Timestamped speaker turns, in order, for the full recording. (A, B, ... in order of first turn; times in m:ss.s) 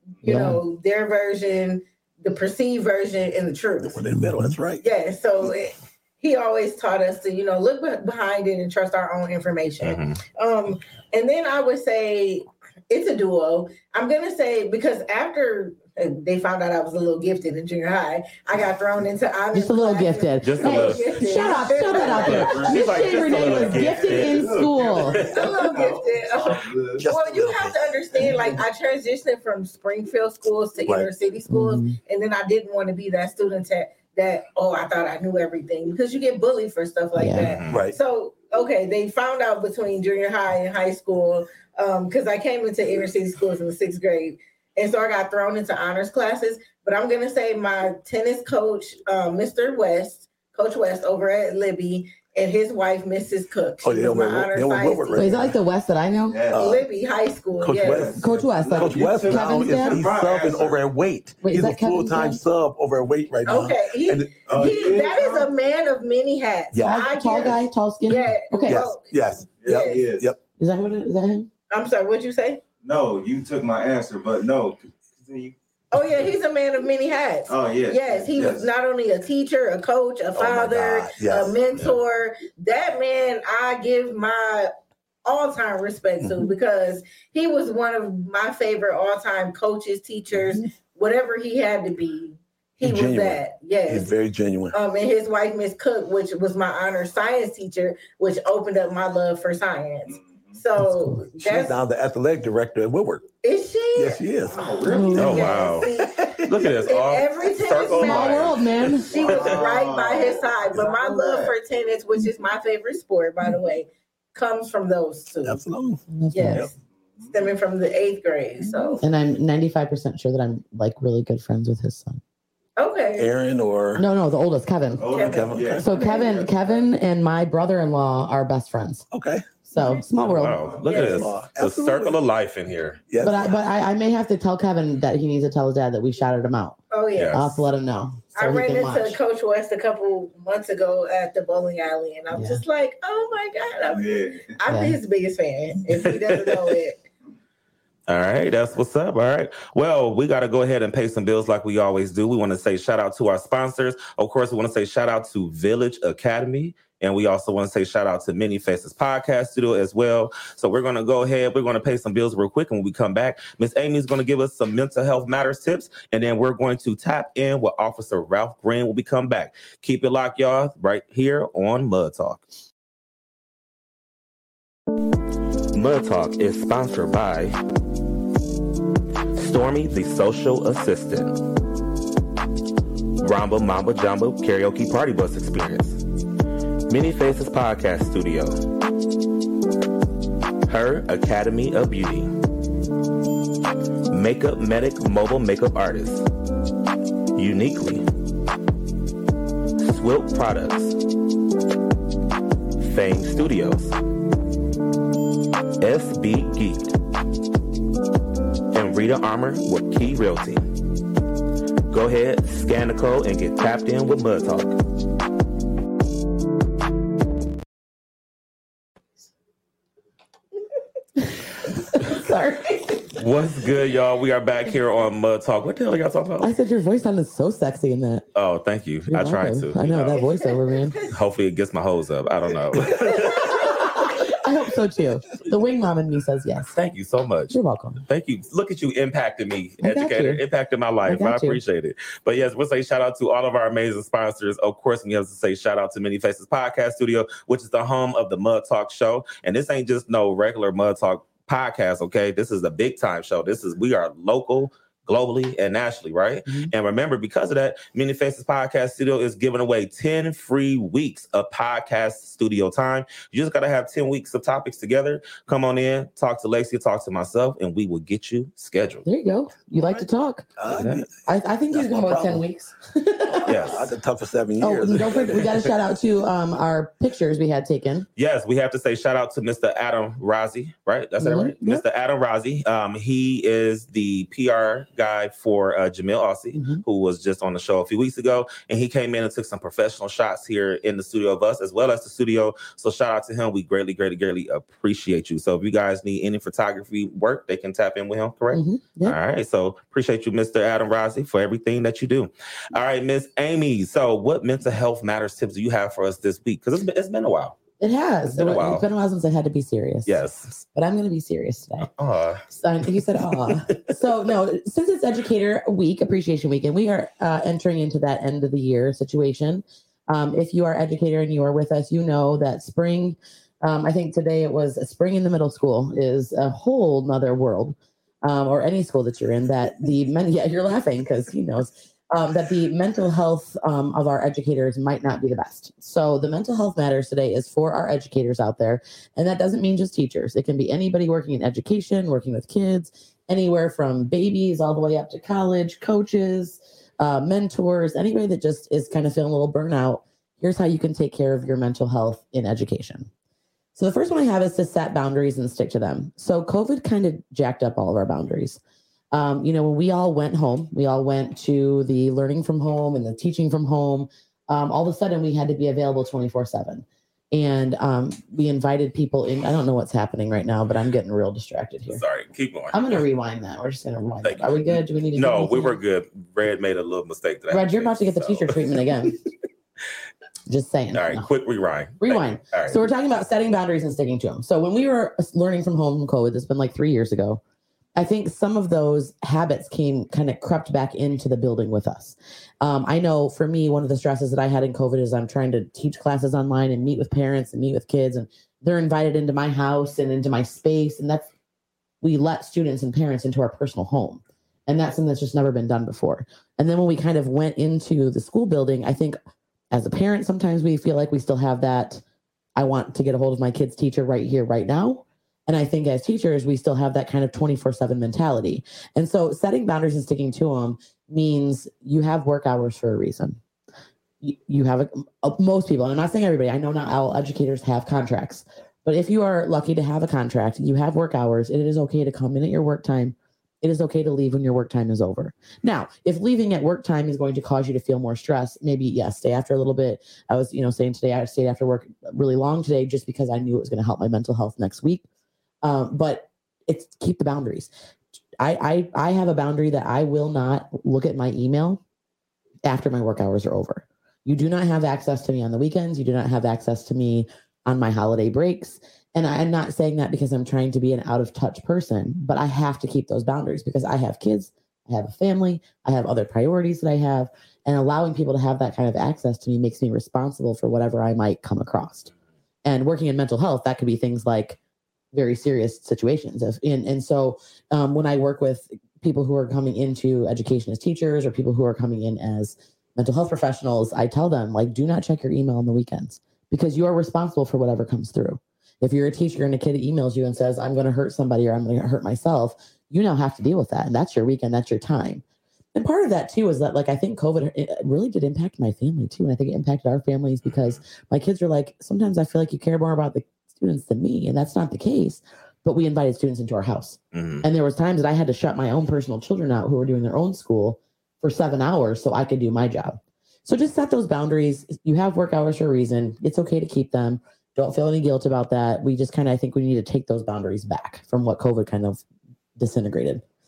0:00.2-0:04.0 A
0:00.2-0:00.6 B
0:03.8-0:04.8 C
0:04.8-0:23.8 A
0:09.8-0:10.2 D
0:19.5-0:25.2 B
0:20.4-0:21.0 D
0:21.9-0:27.1 E
0:22.2-0:25.5 D
0:25.3-0:55.3 A
0:27.0-0:27.8 C
0:28.2-0:28.5 B
0:30.8-0:31.1 C
0:31.5-0:32.0 B
0:37.2-0:37.5 B
0:37.4-0:37.8 D
0:37.7-0:38.0 C
0:53.8-0:55.6 C
0:55.1-0:56.4 B
0:56.3-0:56.8 E
0:56.5-0:56.8 C
0:56.5-0:58.2 A
0:57.6-1:04.5 C
0:57.8-1:00.8 E
0:58.2-1:00.0 B
1:01.4-1:02.4 B
1:03.5-1:09.1 A
1:04.5-1:05.5 E
1:06.7-1:07.1 C
1:06.8-1:08.9 B
1:08.7-1:10.4 C
1:09.6-1:10.3 E
1:09.7-1:10.1 A
1:10.6-1:11.5 B
1:11.7-1:12.6 A
1:12.8-1:16.2 E
1:15.9-1:24.7 A
1:17.5-1:18.7 E
1:20.4-1:21.6 C
1:25.3-1:34.1 A
1:26.2-1:26.5 C
1:32.8-1:34.8 C
1:34.7-1:41.8 A
1:40.2-1:40.6 E
1:40.8-1:41.2 B
1:41.4-1:43.3 C
1:43.4-1:44.2 A
1:44.0-1:44.7 C
1:44.5-1:45.7 E
1:44.8-1:45.5 B
1:44.8-1:46.2 A
1:45.2-1:45.9 D
1:46.1-1:46.6 C
1:46.4-1:49.6 D
1:46.9-1:55.6 A
1:48.0-1:49.2 B
1:49.1-1:51.6 E
1:55.4-1:56.7 C
1:56.1-1:56.7 B
1:56.3-1:59.0 A
1:59.0-2:02.2 B
2:02.8-2:03.3 A
2:03.2-2:04.1 C
2:04.0-2:05.1 B
2:05.0-2:06.8 E
2:05.1-2:06.4 A
2:05.2-2:05.8 C
2:05.8-2:09.1 B
2:09.1-2:09.5 C
2:09.7-2:11.0 B
2:09.8-2:11.0 E
2:10.3-2:13.0 D
2:10.9-2:11.2 A
2:10.9-2:12.2 C
2:13.1-2:13.5 C
2:13.2-2:16.8 B
2:16.9-2:17.5 A
2:17.2-2:17.5 D
2:17.3-2:19.2 B
2:18.4-2:27.0 A
2:22.3-2:22.6 B
2:23.9-2:24.6 E
2:24.7-2:25.0 B
2:25.9-2:26.7 D
2:28.1-2:52.4 D
2:55.7-2:57.6 D
2:59.4-3:01.4 D
3:03.2-3:06.0 D
3:06.9-3:08.6 D
3:10.7-3:12.3 D
3:14.1-3:16.3 D
3:17.4-3:18.1 D
3:19.8-3:21.0 D
3:22.8-3:24.0 D
3:25.8-3:26.9 D
3:28.7-3:30.7 D
3:31.9-3:34.8 D
3:41.2-3:43.2 B
3:43.2-3:46.5 D
3:46.4-3:48.3 B
3:48.4-3:50.3 D
3:49.1-3:51.0 B
3:51.0-3:53.7 D
3:53.4-3:56.7 B
3:56.7-4:29.0 D
3:57.5-3:58.0 B
3:59.8-4:00.4 B
4:01.1-4:01.6 B
4:29.0-4:33.8 B
4:30.6-4:31.1 C
4:30.7-4:31.0 D
4:31.7-4:32.4 C
4:33.4-4:33.9 D
4:33.5-4:35.7 C
4:34.6-4:38.1 B
4:38.2-5:07.6 D
4:41.2-4:41.8 B
4:46.6-4:46.8 B
4:58.5-4:59.2 B
5:07.8-5:10.2 B
5:08.3-5:08.8 D
5:10.1-5:10.6 D
5:10.7-5:11.9 B
5:11.8-5:12.4 D
5:12.5-5:53.1 B
5:53.8-5:58.6 B
5:59.1-6:12.0 B
6:11.9-6:13.0 D
6:12.7-6:15.8 B
6:14.2-6:18.6 D
6:17.5-6:19.2 B
6:20.5-6:21.3 B
6:20.9-6:22.8 D
6:22.0-6:27.4 B
6:28.0-6:41.3 B
6:42.0-6:49.2 B
6:49.7-6:52.0 B
6:52.6-7:03.4 B
7:04.2-7:25.0 B
7:25.6-7:27.7 B
7:28.4-7:31.8 B
7:32.7-7:52.1 B
7:52.6-7:54.6 B
7:55.1-8:15.2 B
8:15.8-8:42.0 B
8:20.4-8:20.8 D
8:27.1-8:27.5 D
8:42.6-8:43.2 B